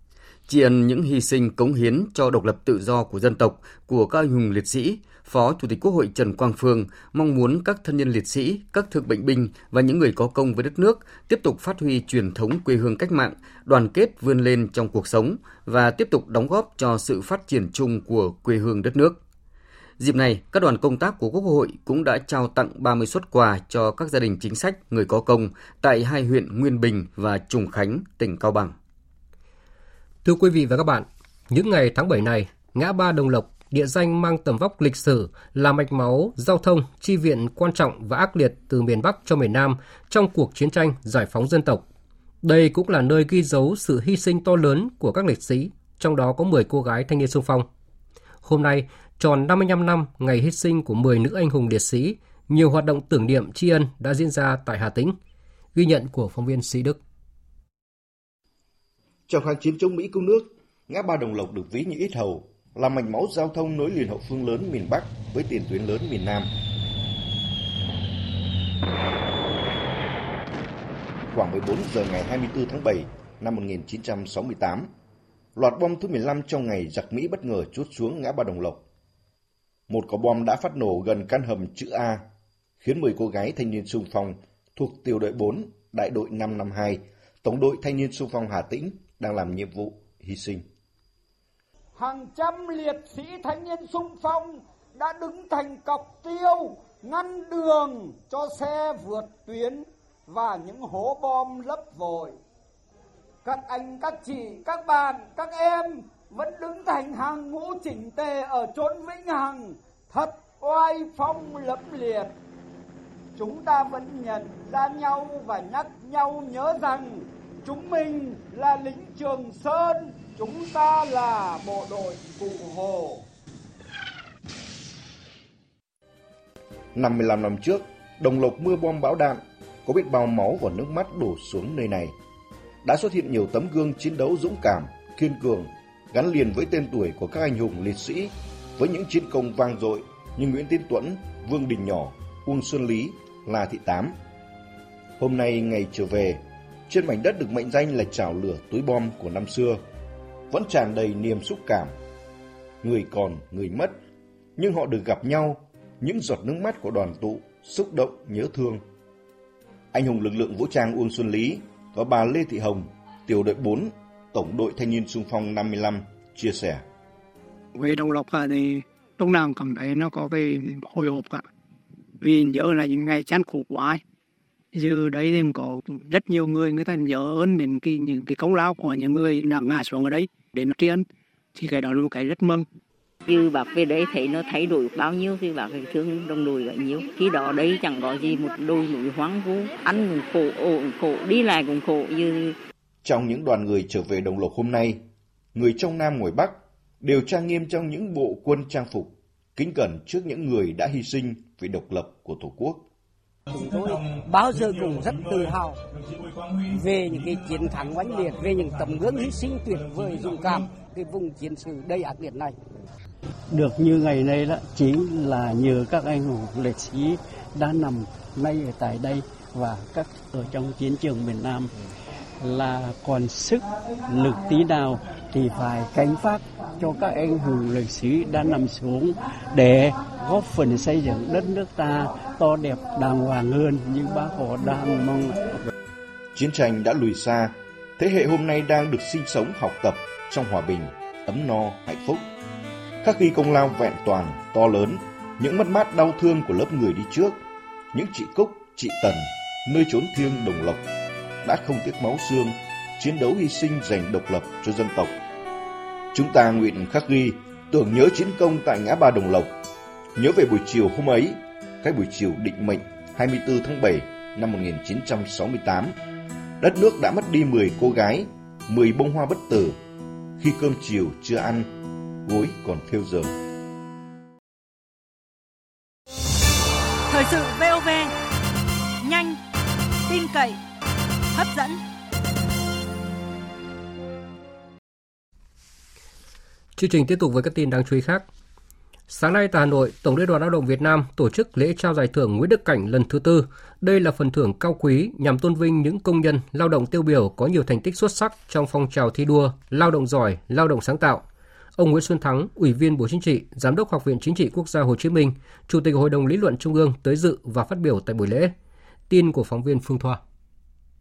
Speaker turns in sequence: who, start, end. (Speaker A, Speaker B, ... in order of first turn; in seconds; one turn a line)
Speaker A: 0.5-19.2
Speaker A: 20.0-28.8
Speaker B: 30.2-41.9
Speaker B: 42.4-47.7
Speaker B: 48.4-55.2
Speaker B: 55.8-57.0
Speaker C: 59.3-66.5
Speaker C: 71.3-74.9
Speaker C: 75.5-78.8
Speaker C: 79.9-82.3
Speaker C: 82.8-90.7
Speaker D: 92.0-102.4
Speaker D: 103.4-112.4
Speaker D: 113.4-123.2
Speaker C: 127.0-132.2
Speaker C: 132.8-144.2
Speaker C: 145.2-149.8
Speaker C: 150.5-152.0
Speaker C: 152.8-154.0
Speaker C: 154.6-158.8
Speaker C: 159.9-166.8
Speaker E: 167.8-171.5
Speaker E: 172.2-174.0
Speaker E: 174.7-182.7
Speaker F: 183.3-192.6
Speaker C: 193.0-195.0
Speaker C: 195.6-202.8
Speaker G: 203.5-205.8
Speaker G: 206.7-212.6
Speaker H: 213.5-221.7
Speaker H: 222.4-235.6
Speaker C: 236.3-242.2
Speaker C: 243.0-247.4
Speaker C: 247.9-250.8
Speaker C: 251.4-255.1
Speaker C: 256.1-259.5
Speaker C: 260.2-265.9
Speaker C: 266.6-269.8
Speaker C: 270.4-271.7
Speaker C: 272.2-273.3
Speaker I: 277.1-278.1
Speaker I: 279.0-279.3
Speaker I: 280.1-280.6
Speaker I: 281.4-281.7
Speaker B: 286.8-288.3
Speaker B: 289.1-301.2
Speaker B: 301.8-308.5
Speaker B: 309.1-310.2